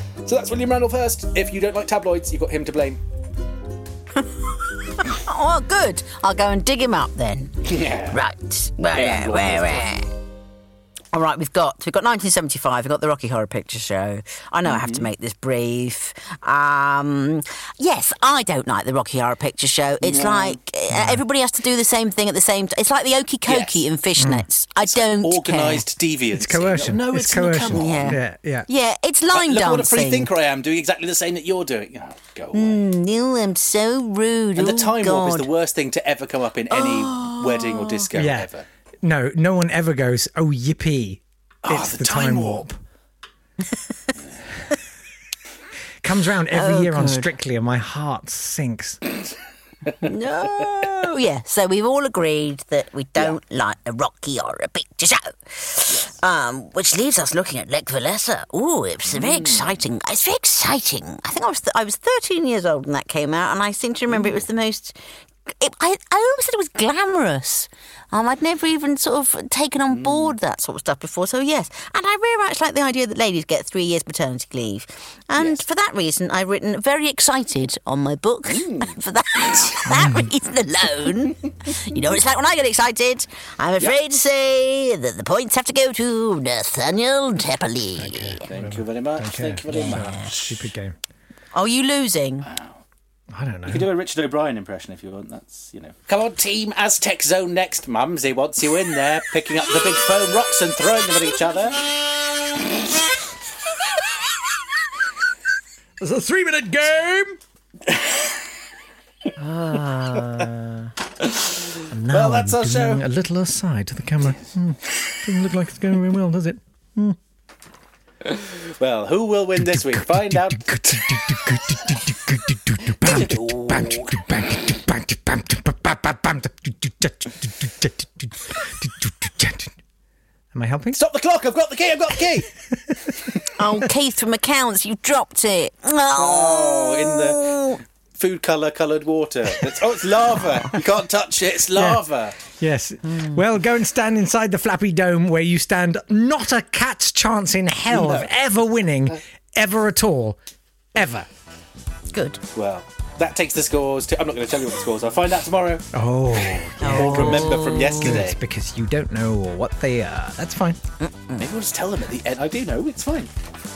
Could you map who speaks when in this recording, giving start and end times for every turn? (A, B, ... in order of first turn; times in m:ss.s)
0:00.2-0:03.0 A
0:04.4-0:10.1 B
0:07.6-0:08.2 A
0:08.9-0:10.0 A
0:11.1-0:25.8 B
0:14.6-0:15.1 A
0:20.0-0:20.6 A
0:20.9-0:21.2 C
0:23.4-0:23.9 A
0:24.2-0:24.4 C
0:24.9-0:28.2 A
0:26.3-0:28.7 C
0:27.7-0:30.3 B
0:29.3-0:32.8 A
0:32.5-0:35.5 B
0:34.6-0:38.6 A
0:36.7-0:38.0 B
0:38.1-0:38.5 C
0:39.0-0:42.8 C
0:41.6-0:42.7 A
0:46.0-0:49.0 C
0:46.5-0:47.3 B
0:49.9-1:28.4 B
0:59.1-0:59.8 A
1:04.1-1:04.4 A
1:09.9-1:10.4 A
1:15.4-1:15.6 A
1:18.4-1:19.0 A
1:19.9-1:20.3 C
1:28.0-1:30.9 C
1:28.4-1:30.7 A
1:29.7-1:30.3 B
1:31.5-1:32.5 B
1:32.4-1:32.8 A
1:33.3-1:33.9 C
1:33.7-1:41.8 A
1:46.0-1:47.4 C
1:47.9-1:48.4 A
1:49.4-1:50.9 B
1:51.2-1:53.0 A
1:51.9-1:57.2 C
1:58.2-2:01.9 A
1:59.6-2:09.7 C
2:02.8-2:04.3 A
2:10.5-2:11.0 C
2:10.9-2:12.5 A
2:12.6-2:13.2 C
2:13.5-2:17.8 B
2:16.1-2:17.6 A
2:18.1-2:22.4 A
2:21.7-2:30.4 C
2:27.9-2:28.4 A
2:30.9-2:31.3 C
2:32.1-2:32.4 B
2:32.5-2:38.4 A
2:35.9-2:40.8 C
2:36.8-2:38.3 B
2:41.0-2:41.4 B
2:41.4-2:43.3 A